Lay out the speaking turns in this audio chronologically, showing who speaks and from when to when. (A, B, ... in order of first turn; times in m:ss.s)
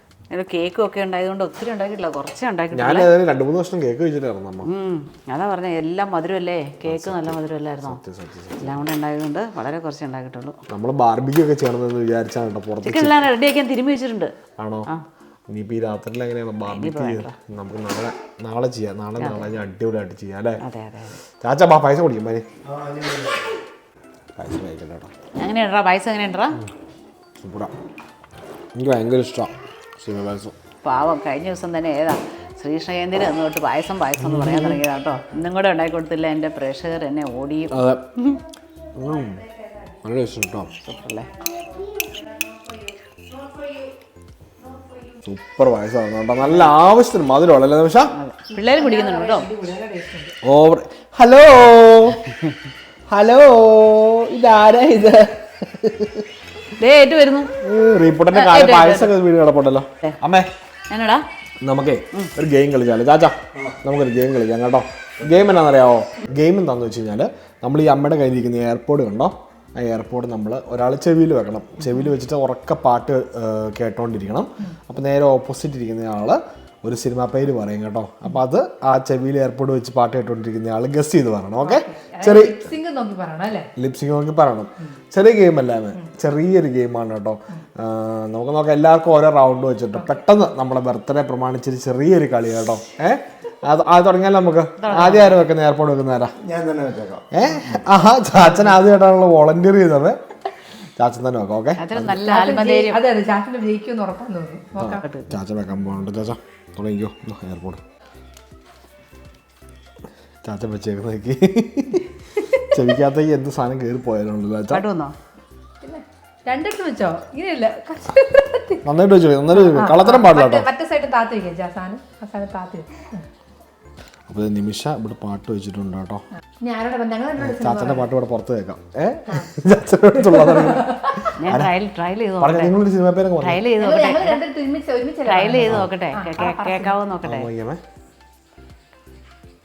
0:00.3-0:03.1 A
0:02.7-0:04.7 B
0:04.6-0:08.0 A
0:06.8-0:08.8 B
0:08.6-0:10.6 A
0:10.7-0:13.2 B
0:12.8-0:14.3 A
0:14.6-0:14.9 B
0:15.5-0:20.6 B
0:16.7-0:17.3 A
0:19.2-0:19.5 A
0:20.6-0:21.2 A
0:21.4-0:22.4 B
0:22.6-0:23.5 C
0:24.4-0:25.1 B
0:25.4-0:26.6 A
0:27.4-0:27.7 B
0:28.8-0:30.6 B
0:30.8-0:38.4 A
0:34.2-0:34.8 B
0:37.7-0:38.1 B
0:39.0-0:39.4 B
0:39.0-0:40.0 D
0:40.0-0:40.7 B
0:40.8-0:41.3 A
0:40.9-0:43.9 D
0:44.6-0:45.2 D
0:45.2-0:48.1 B
0:46.4-0:46.8 A
0:48.1-0:49.5 A
0:48.5-0:50.4 D
0:50.4-0:52.2 B
0:53.1-0:56.3 B
0:56.8-0:57.5 A
0:57.6-1:00.5 B
0:58.3-0:59.1 A
1:00.9-1:01.2 A
1:01.6-1:22.6 B
1:21.6-1:23.7 D
1:23.8-1:36.4 B
1:30.0-1:30.2 D
1:34.8-1:35.4 A
1:36.4-1:37.8 C
1:37.3-1:40.2 B
1:41.0-1:42.2 B
1:41.8-1:43.0 A
1:42.0-1:45.0 D
1:44.8-1:47.8 B
1:45.0-1:45.3 A
1:50.4-1:52.1 B
1:52.6-1:54.8 B
1:54.7-1:55.1 A
1:55.8-1:58.8 D
1:58.8-2:00.7 B
1:59.5-2:03.2 D
2:04.3-2:06.2 B
2:06.4-2:08.1 D
2:07.4-2:11.7 B
2:10.2-2:11.3 D
2:11.4-2:12.8 A
2:12.4-2:13.6 B
2:13.4-2:14.4 A
2:13.8-2:16.9 D
2:15.3-2:17.5 A
2:17.2-2:17.8 B